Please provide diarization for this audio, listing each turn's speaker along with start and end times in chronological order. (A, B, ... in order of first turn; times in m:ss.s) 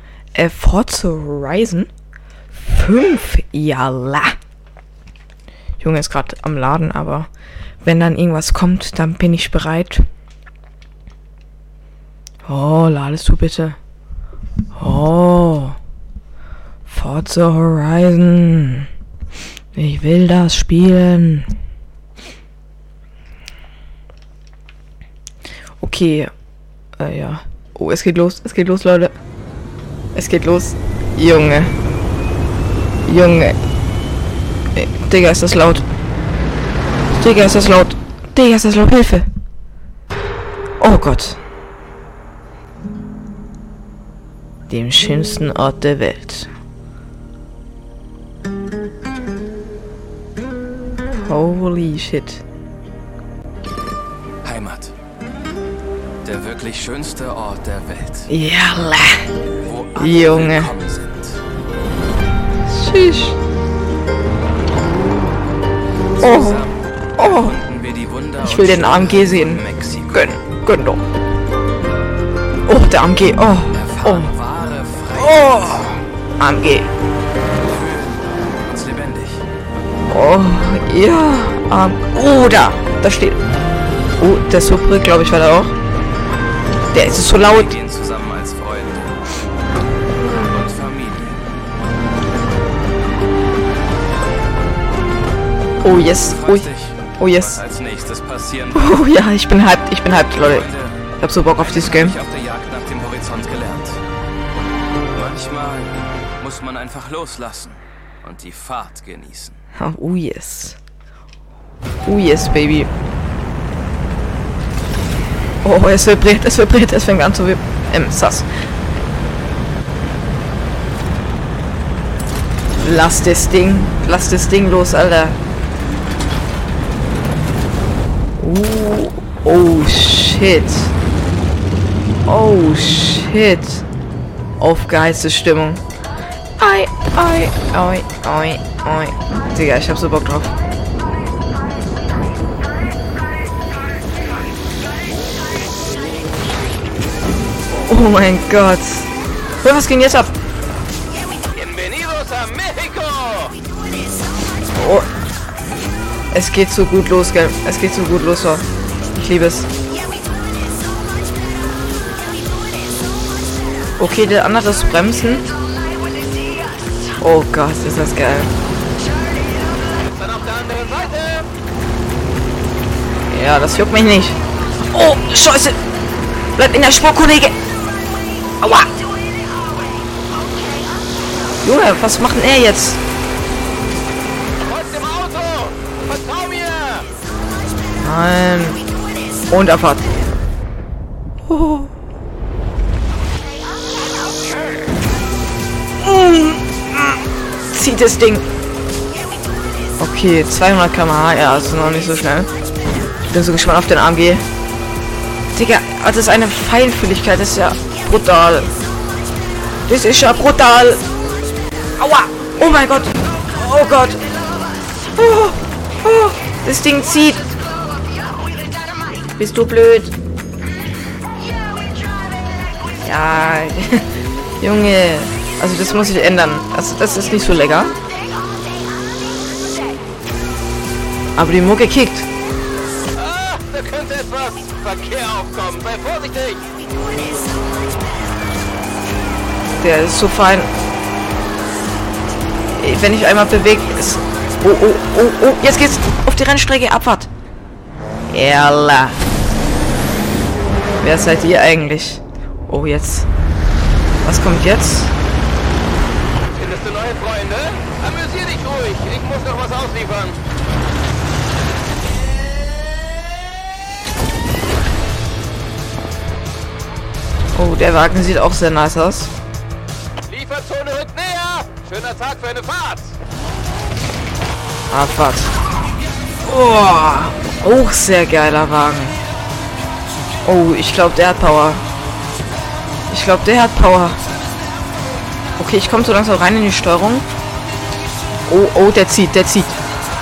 0:00.4-0:01.9 A
0:02.6-0:04.4 A
0:05.8-0:07.3 A
0:07.8-0:10.1 A
0:12.5-0:13.8 A
0:14.8-0:15.8 A
0:16.9-0:18.9 A
0:19.8-0:21.5 A
0:25.8-0:26.3 A
0:27.0-0:29.2 A
0:30.1-0:31.8 A
0:33.1-0:33.6 A
0:34.8-0:35.8 A
0:37.1-0:39.3 A
0:40.8-0:41.4 A
0:44.7-0:46.5 A
0:51.2-0:52.4 A
0:54.5-0:54.9 B
0:56.3-0:58.2 B
0:58.3-0:59.3 A
0:59.6-1:01.3 B
0:59.9-1:00.7 A
1:02.7-1:03.4 A
1:06.2-1:07.6 A
1:07.5-1:10.2 B
1:08.4-1:11.0 A
1:12.7-1:14.3 A
1:14.0-1:15.3 B
1:15.1-1:16.9 A
1:17.7-1:18.2 B
1:18.7-1:19.4 B
1:20.1-1:23.4 A
1:24.2-1:25.8 A
1:26.9-1:27.8 A
1:27.6-1:29.0 B
1:30.6-1:31.4 B
1:35.8-1:37.6 A
1:36.4-1:36.9 B
1:37.7-1:38.6 B
1:38.7-1:42.2 A
1:42.2-1:44.0 B
1:45.2-1:49.6 B
1:49.8-1:50.8 A
1:52.0-1:52.9 A
1:55.6-1:58.5 A
2:02.8-2:05.4 A
2:08.4-2:10.9 A
2:12.2-2:13.8 A
2:14.6-2:15.8 A
2:16.6-2:20.6 A
2:27.7-2:29.1 A
2:29.6-2:30.3 A
2:31.5-2:33.6 B
2:34.7-2:35.1 A
2:36.3-2:39.7 A
2:44.0-2:45.5 A
2:47.2-2:48.5 A
2:50.1-2:51.5 B
2:53.3-2:54.4 A
2:54.9-2:55.8 A
2:56.6-2:57.6 A
2:58.6-2:58.9 A
3:01.6-3:03.0 A
3:04.7-3:07.1 B
3:08.0-3:08.8 A
3:09.5-3:10.1 A
3:11.4-3:11.9 A
3:16.0-3:18.5 A
3:20.0-3:22.5 A
3:23.3-3:24.5 A
3:25.6-3:28.7 A
3:29.9-3:31.0 A
3:32.0-3:34.2 A
3:35.1-3:37.5 A
3:39.4-3:40.2 A
3:43.0-3:44.1 A
3:44.6-3:48.0 A
3:51.4-3:52.3 A
3:53.1-3:56.6 B
3:59.8-4:00.7 A
4:02.8-4:07.3 A
4:08.3-4:09.2 A
4:11.0-4:13.3 A
4:14.2-4:15.2 A
4:16.5-4:20.4 B
4:27.5-4:29.3 A
4:30.3-4:33.1 B
4:34.9-4:35.6 A
4:36.4-4:39.2 A
4:40.4-4:41.8 A
4:43.1-4:44.2 A
4:45.6-4:47.3 A
4:48.5-4:49.7 A